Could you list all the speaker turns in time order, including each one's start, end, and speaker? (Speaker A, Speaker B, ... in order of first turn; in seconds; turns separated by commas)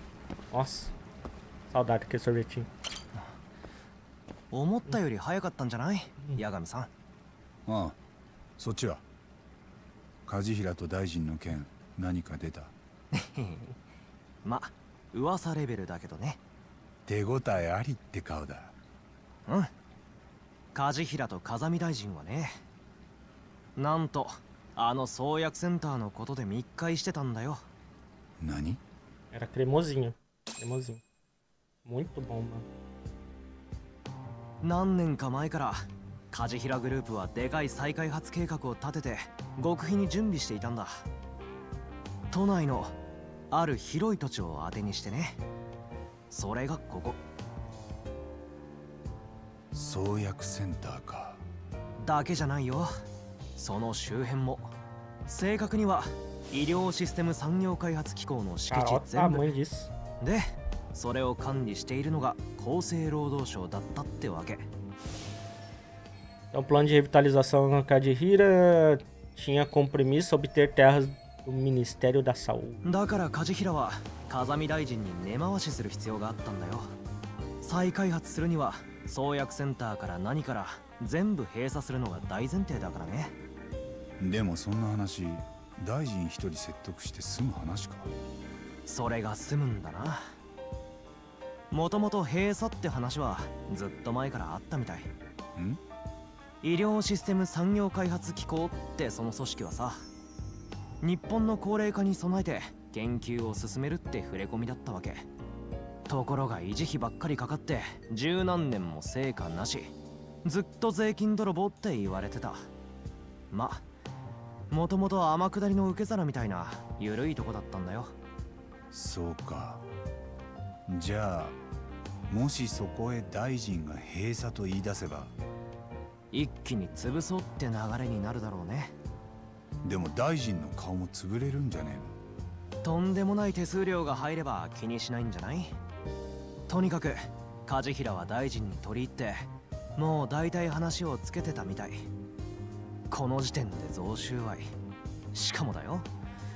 Speaker A: 0.5-0.9, Speaker A: 1.7-2.7, Speaker B: 4.5-6.9, Speaker C: 7.7-8.0, Speaker C: 8.6-9.0, Speaker C: 10.2-12.7, Speaker B: 13.1-13.6, Speaker B: 14.4-16.4, Speaker C: 17.1-18.7, Speaker B: 20.7-22.6, Speaker B: 23.8-27.6, Speaker C: 28.4-28.8, Speaker A: 29.3-31.0, Speaker A: 31.8-32.7, Speaker B: 34.6-41.0, Speaker B: 42.3-42.9, Speaker B: 43.5-45.4, Speaker B: 46.3-47.2, Speaker C: 49.7-51.4, Speaker B: 52.0-52.9, Speaker B: 53.6-54.7, Speaker B: 55.3-59.5, Speaker A: 58.7-59.9, Speaker B: 60.2-64.7, Speaker A: 66.5-72.8, Speaker B: 72.8-76.9, Speaker B: 77.6-83.3, Speaker C: 84.2-88.1, Speaker B: 88.9-90.3, Speaker B: 91.7-95.1, Speaker B: 96.6-100.0, Speaker B: 101.0-105.2, Speaker B: 106.1-109.9, Speaker B: 110.4-112.7, Speaker B: 113.5-113.8, Speaker B: 114.7-118.1, Speaker C: 118.9-119.8, Speaker C: 120.9-121.5, Speaker C: 122.3-125.3, Speaker B: 126.3-128.9, Speaker C: 129.8-132.1, Speaker B: 132.8-135.7, Speaker B: 136.7-142.0, Speaker B: 143.1-144.7, Speaker B: 145.3-146.1